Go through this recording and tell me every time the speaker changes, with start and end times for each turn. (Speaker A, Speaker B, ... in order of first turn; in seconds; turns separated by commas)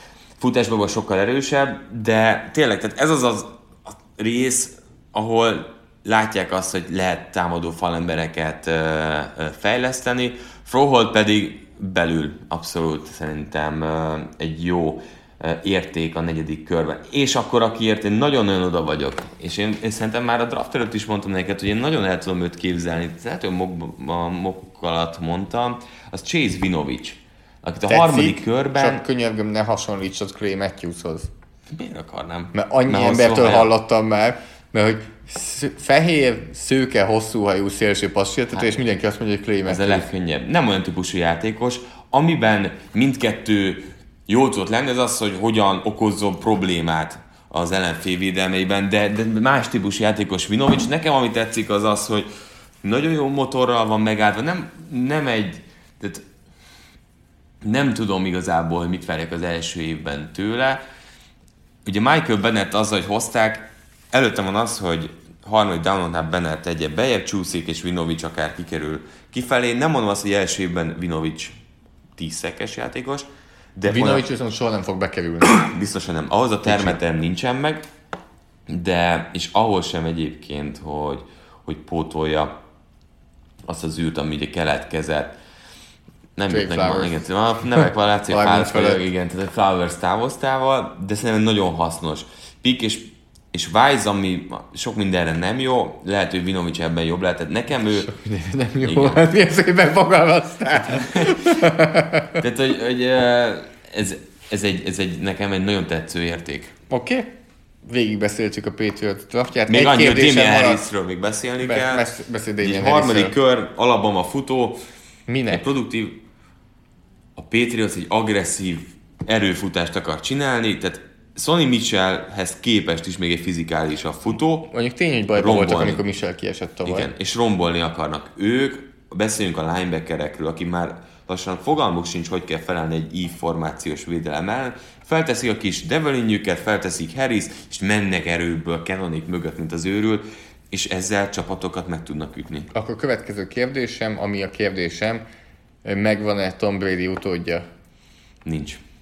Speaker A: 0.4-29.0, Speaker B: 27.9-31.3, Speaker A: 31.7-33.7, Speaker B: 32.5-40.1, Speaker A: 39.7-52.3, Speaker A: 52.8-56.2, Speaker A: 57.6-60.8, Speaker A: 61.9-71.6, Speaker A: 72.2-74.3, Speaker B: 73.9-75.5, Speaker A: 75.4-77.9, Speaker B: 76.7-77.0, Speaker A: 78.7-82.5, Speaker A: 83.7-85.4, Speaker A: 86.4-98.1, Speaker B: 86.5-87.2, Speaker B: 88.3-89.0, Speaker B: 97.9-102.4, Speaker A: 98.8-99.2, Speaker A: 100.9-101.7, Speaker A: 102.4-106.8, Speaker B: 106.9-107.3, Speaker B: 107.9-110.9, Speaker A: 109.7-112.0, Speaker B: 111.6-113.4, Speaker A: 112.6-114.8, Speaker B: 115.3-115.7, Speaker A: 115.5-116.2, Speaker A: 117.4-124.7, Speaker B: 124.7-127.1, Speaker A: 125.3-126.0, Speaker A: 126.8-142.7, Speaker B: 142.7-145.2, Speaker B: 145.8-147.7, Speaker A: 148.4-148.8